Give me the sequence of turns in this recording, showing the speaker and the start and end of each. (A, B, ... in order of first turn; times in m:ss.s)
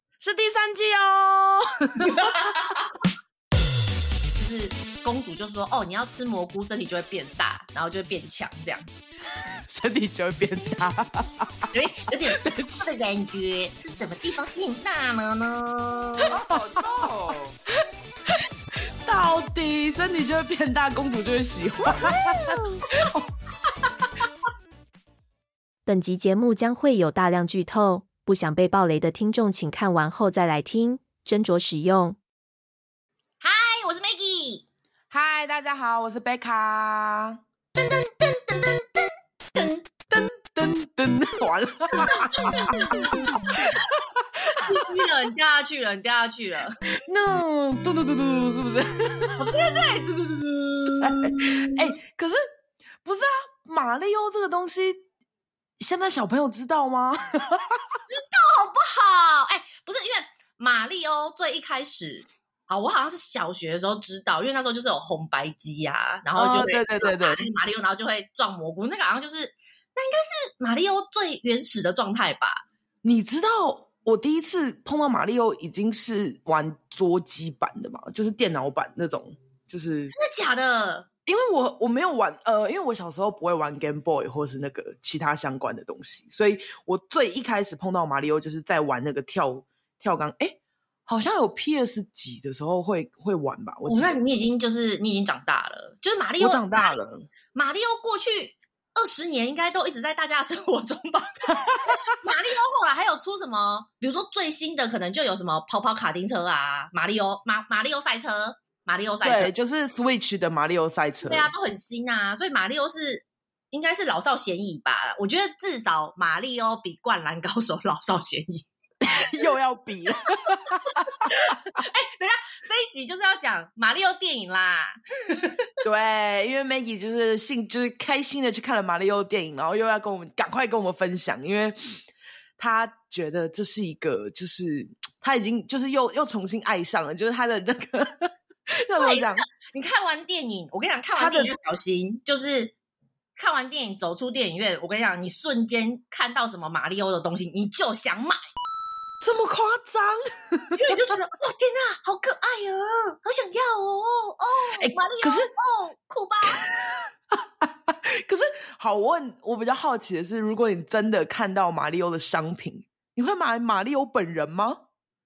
0:00.2-0:02.5 A
0:02.0-0:02.9 B
0:04.4-0:09.0 B
0:09.7-0:11.5 A
0:11.7-0:16.4 B
0:12.4-0:12.8 A
0:16.3-0:17.5 A
0:19.0-0:23.3 A
0:23.8-0:24.1 B
0:25.8-0:32.2 C
0:33.4-0:34.6 B
0:35.1-0:37.4 A
0:37.8-0:39.8 B
0:40.0-0:44.8 A
0:42.3-0:43.1 B
0:44.5-0:46.8 B
0:46.8-0:49.5 A
0:49.4-0:51.9 B
0:51.0-0:52.4 A
0:53.0-0:55.0 A
0:55.8-0:57.8 A
0:58.1-1:12.6 B
1:06.4-1:07.5 A
1:13.0-1:20.1 A
1:20.1-1:21.1 B
1:21.2-1:34.2 A
1:33.8-1:37.0 B
1:36.4-1:37.3 A
1:37.5-1:49.5 B
1:41.6-1:42.0 A
1:49.2-1:51.5 A
1:51.2-1:58.6 B
1:59.0-2:01.8 A
2:01.2-2:05.6 B
2:05.8-2:11.8 A
2:12.6-2:19.4 A
2:19.0-2:22.7 B
2:21.2-2:21.5 A
2:23.4-2:28.4 B
2:29.2-2:30.8 A
2:30.7-2:36.6 B
2:34.8-2:35.5 A
2:36.4-2:44.8 A